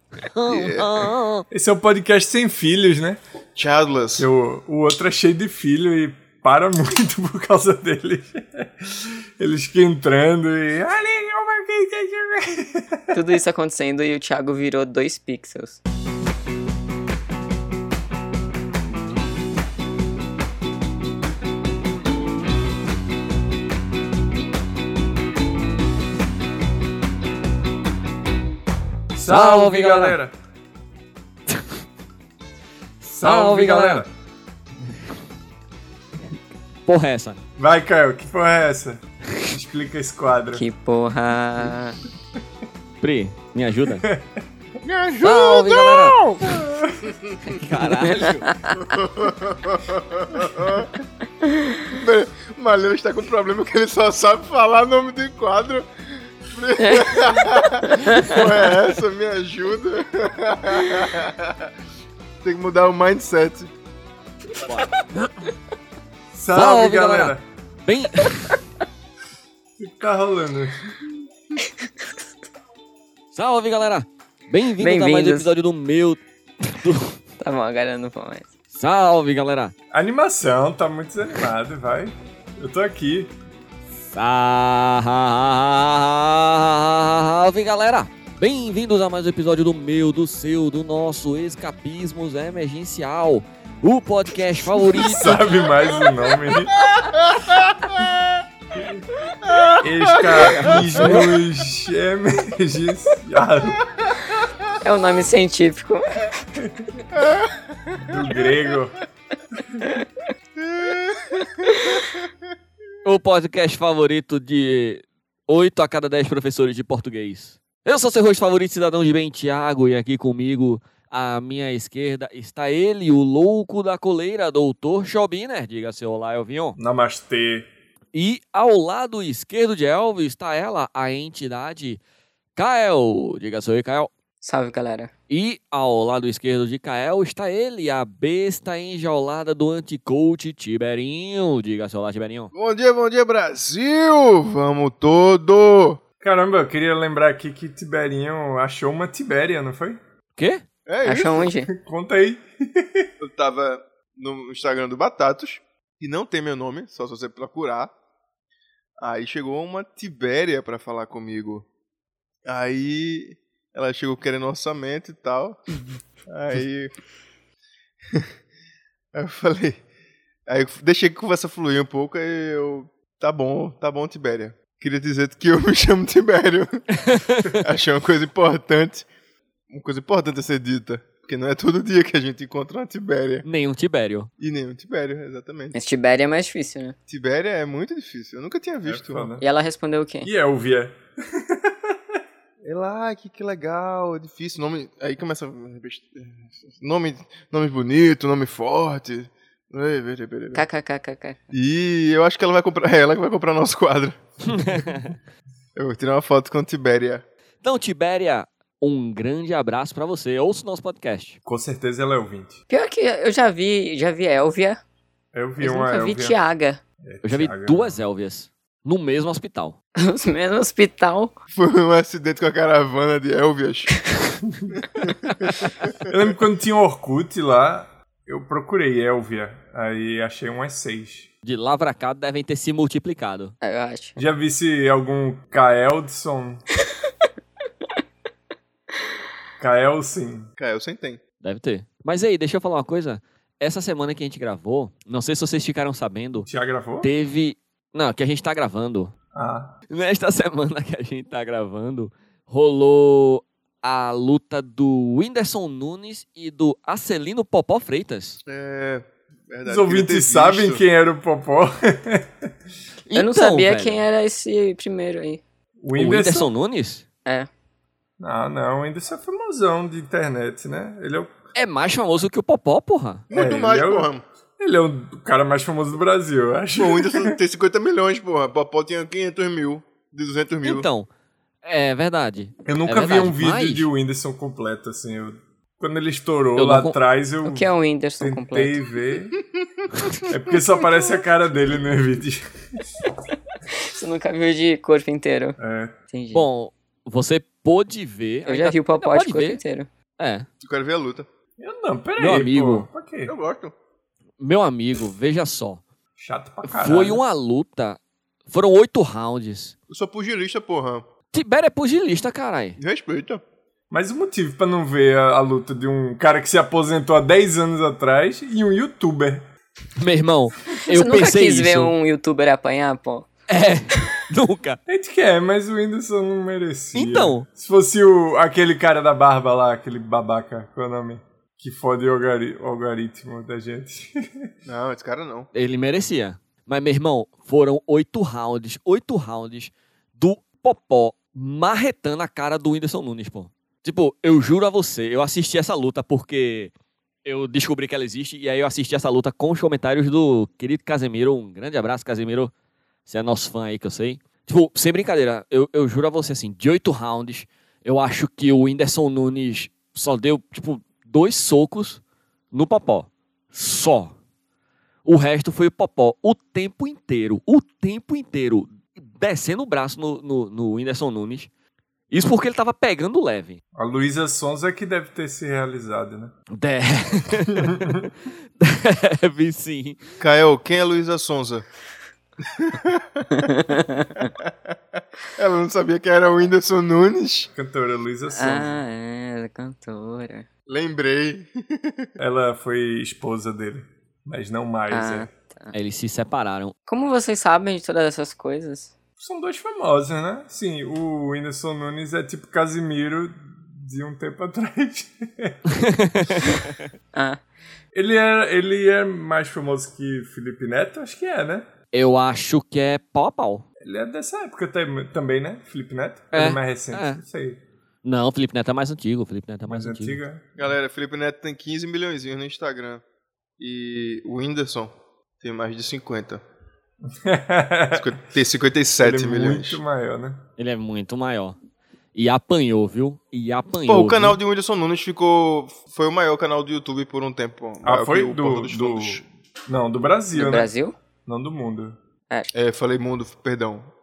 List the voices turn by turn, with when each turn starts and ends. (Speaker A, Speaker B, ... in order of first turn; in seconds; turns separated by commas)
Speaker A: 0.2-1.4, Speaker B: 0.5-1.1, Speaker C: 1.5-3.2, Speaker B: 3.5-4.3, Speaker C: 4.2-13.1, Speaker D: 13.1-15.8, Speaker C: 29.1-30.3, Speaker A: 29.2-30.1, Speaker A: 33.0-34.0, Speaker C: 33.1-34.1, Speaker A: 36.9-37.4, Speaker C: 37.6-40.6, Speaker D: 40.5-42.0, Speaker A: 43.0-44.0, Speaker C: 44.0-44.4, Speaker B: 44.8-47.6, Speaker A: 45.2-46.3, Speaker C: 46.4-47.1, Speaker A: 47.5-48.5, Speaker D: 48.0-48.8, Speaker B: 48.7-51.0, Speaker D: 51.4-51.8, Speaker B: 51.9-61.7, Speaker D: 56.8-57.3, Speaker D: 57.9-58.4, Speaker B: 62.4-63.7, Speaker A: 64.6-64.9, Speaker C: 66.3-67.4, Speaker A: 66.5-67.3, Speaker A: 67.8-68.5, Speaker C: 69.8-70.9, Speaker A: 73.3-77.2, Speaker D: 74.8-75.5, Speaker D: 77.4-78.5, Speaker A: 78.7-79.7, Speaker C: 79.9-83.3, Speaker A: 84.1-95.6, Speaker C: 94.9-96.8, Speaker B: 96.8-98.2, Speaker B: 99.4-101.0, Speaker C: 99.8-104.2, Speaker A: 100.4-101.2, Speaker D: 104.8-106.3, Speaker C: 106.6-106.9, Speaker B: 107.2-107.9, Speaker C: 107.9-109.0, Speaker B: 110.6-112.2, Speaker A: 113.0-126.8, Speaker C: 126.8-127.7, Speaker A: 128.1-132.0, Speaker A: 132.6-134.1, Speaker D: 134.4-135.1, Speaker A: 135.3-142.5, Speaker B: 142.5-146.0, Speaker C: 146.2-150.0, Speaker A: 150.3-150.6, Speaker B: 150.8-151.5, Speaker D: 151.0-151.7, Speaker C: 151.7-153.1, Speaker B: 153.2-157.9, Speaker B: 159.0-161.7, Speaker B: 162.4-165.6, Speaker B: 166.2-166.9, Speaker B: 169.1-169.8, Speaker B: 170.5-176.9, Speaker A: 177.0-177.6, Speaker B: 177.5-179.1, Speaker B: 179.7-183.4, Speaker A: 183.4-184.3, Speaker B: 184.4-185.8, Speaker D: 185.7-186.9, Speaker B: 187.1-189.3, Speaker C: 188.8-189.4, Speaker D: 189.4-190.3, Speaker C: 190.2-191.9, Speaker B: 192.6-200.6, Speaker D: 200.5-201.4, Speaker B: 201.5-204.4, Speaker A: 204.4-205.1, Speaker B: 205.8-207.2, Speaker A: 207.6-211.4, Speaker C: 211.4-212.6, Speaker D: 212.7-214.8, Speaker C: 215.3-216.4, Speaker D: 215.6-216.8, Speaker C: 217.0-217.9, Speaker A: 217.2-219.8, Speaker D: 220.0-221.3, Speaker B: 221.5-223.9, Speaker C: 226.0-231.3, Speaker A: 231.4-233.5, Speaker D: 233.6-234.2, Speaker C: 234.2-236.6, Speaker C: 239.6-240.5, Speaker B: 240.6-241.2, Speaker A: 241.4-246.5, Speaker C: 246.4-247.1, Speaker A: 247.0-249.1, Speaker C: 249.3-249.7, Speaker A: 249.9-258.4, Speaker B: 258.5-260.8, Speaker C: 259.6-262.5, Speaker A: 263.1-264.0, Speaker D: 263.1-265.4, Speaker C: 265.8-266.5, Speaker A: 265.9-267.0, Speaker C: 268.2-271.3, Speaker A: 271.5-273.3, Speaker B: 273.3-274.2, Speaker C: 273.3-277.4, Speaker B: 276.8-280.9, Speaker A: 280.6-281.1, Speaker A: 281.6-283.9, Speaker C: 282.6-289.4, Speaker A: 286.6-286.9, Speaker D: 287.4-288.8, Speaker C: 290.3-292.9, Speaker D: 293.8-295.6, Speaker C: 295.6-295.9, Speaker D: 296.1-296.5, Speaker A: 296.3-299.6, Speaker D: 298.4-299.9, Speaker A: 300.2-300.5, Speaker B: 300.6-301.3, Speaker C: 301.6-303.3, Speaker A: 302.2-302.9, Speaker B: 303.2-303.7, Speaker A: 304.4-305.8, Speaker C: 306.2-307.2, Speaker A: 306.6-309.7, Speaker B: 309.9-311.0, Speaker A: 311.3-312.8, Speaker B: 312.8-313.4, Speaker C: 313.9-319.4, Speaker A: 320.0-321.9, Speaker D: 320.8-323.3, Speaker A: 323.5-324.8, Speaker C: 324.9-334.5, Speaker A: 326.9-327.5, Speaker B: 334.6-335.5, Speaker A: 335.5-346.7, Speaker A: 347.2-352.5, Speaker A: 353.1-362.0, Speaker A: 362.5-364.1, Speaker A: 365.0-371.5, Speaker A: 372.1-373.6, Speaker C: 373.8-376.3, Speaker A: 376.5-380.0, Speaker C: 377.5-378.0, Speaker B: 380.2-381.6, Speaker B: 382.4-383.5, Speaker D: 383.3-384.3, Speaker B: 384.4-387.5, Speaker C: 387.5-388.8, Speaker D: 388.3-390.5, Speaker B: 390.7-392.1, Speaker C: 392.2-395.3, Speaker D: 394.9-395.7, Speaker A: 395.7-396.7, Speaker D: 396.9-398.9, Speaker C: 399.2-405.6, Speaker A: 405.7-406.8, Speaker D: 407.1-407.4, Speaker C: 407.9-411.7, Speaker A: 411.9-413.6, Speaker C: 413.8-417.6, Speaker A: 416.3-417.2, Speaker A: 418.0-420.2, Speaker C: 419.6-420.4, Speaker B: 420.6-423.0, Speaker B: 423.6-426.4, Speaker C: 427.1-428.1, Speaker B: 427.9-429.8, Speaker C: 429.0-430.4, Speaker A: 430.6-431.6, Speaker A: 432.1-434.4, Speaker B: 433.9-439.2, Speaker C: 437.8-440.7, Speaker D: 440.3-440.9, Speaker C: 441.2-441.9, Speaker B: 442.5-443.9